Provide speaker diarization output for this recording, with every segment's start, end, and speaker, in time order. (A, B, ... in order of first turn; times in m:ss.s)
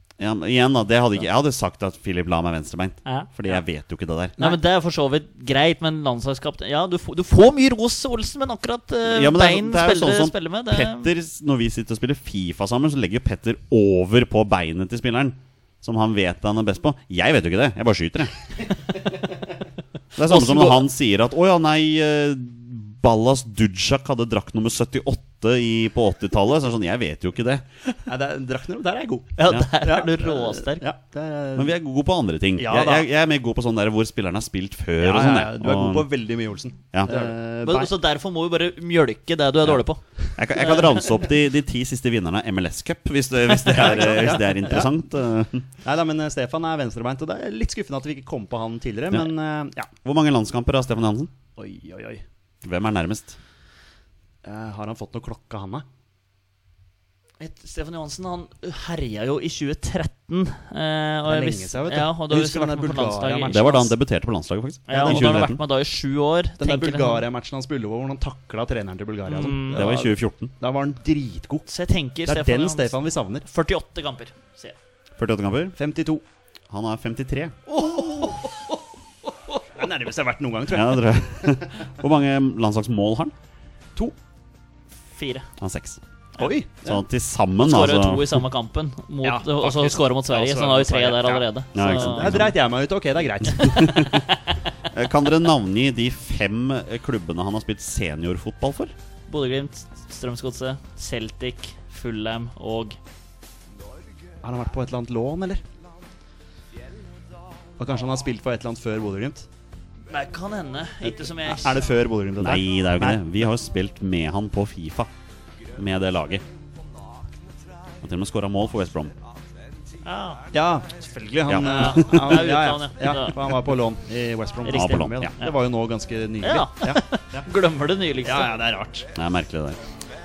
0:00.2-0:04.4 A
0:03.0-0:03.3 B
0:04.4-0:11.1 B
0:09.0-0:18.3 A
0:20.1-0:27.6 A
0:20.3-0:20.8 B
0:28.0-0:31.7 C
0:29.4-0:30.9 B
0:31.5-0:36.0 A
0:32.6-0:33.1 C
0:35.0-0:37.9 C
0:37.1-0:40.0 B
0:40.4-0:45.7 A
0:40.5-0:41.0 B
0:43.6-0:44.7 B
0:43.6-0:44.9 C
0:45.8-0:49.9 C
0:50.0-0:51.3 A
0:51.6-0:52.2 C
0:52.6-0:53.4 A
0:54.4-0:55.8 C
0:57.4-1:03.9 B
1:01.2-1:03.9 C
1:03.5-1:05.6 A
1:04.9-1:07.2 B
1:04.9-1:05.5 C
1:06.6-1:11.7 C
1:09.2-1:09.8 B
1:09.7-1:10.5 A
1:11.7-1:14.8 B
1:12.2-1:13.4 C
1:15.2-1:15.8 A
1:15.8-1:16.2 C
1:16.7-1:17.6 A
1:17.7-1:18.3 C
1:17.7-1:18.8 B
1:19.8-1:21.6 C
1:20.7-1:23.3 A
1:25.1-1:25.5 B
1:25.6-1:26.0 A
1:26.4-1:27.0 C
1:26.8-1:28.4 A
1:27.6-1:32.5 B
1:29.2-1:34.2 C
1:31.7-1:32.5 A
1:33.6-1:34.3 A
1:33.8-1:34.7 B
1:34.9-1:38.9 A
1:39.3-1:43.0 B
1:44.4-1:45.6 C
1:47.8-1:49.5 C
1:50.1-1:51.9 B
1:51.0-1:53.2 C
1:52.4-1:55.1 A
1:55.7-1:56.4 A
1:58.0-1:59.1 A
2:00.0-2:00.4 B
2:00.5-2:07.4 C
2:01.5-2:02.1 A
2:01.6-2:03.5 B
2:04.6-2:05.5 B
2:04.7-2:05.3 A
2:06.4-2:08.6 B
2:08.2-2:09.1 C
2:09.1-2:09.8 A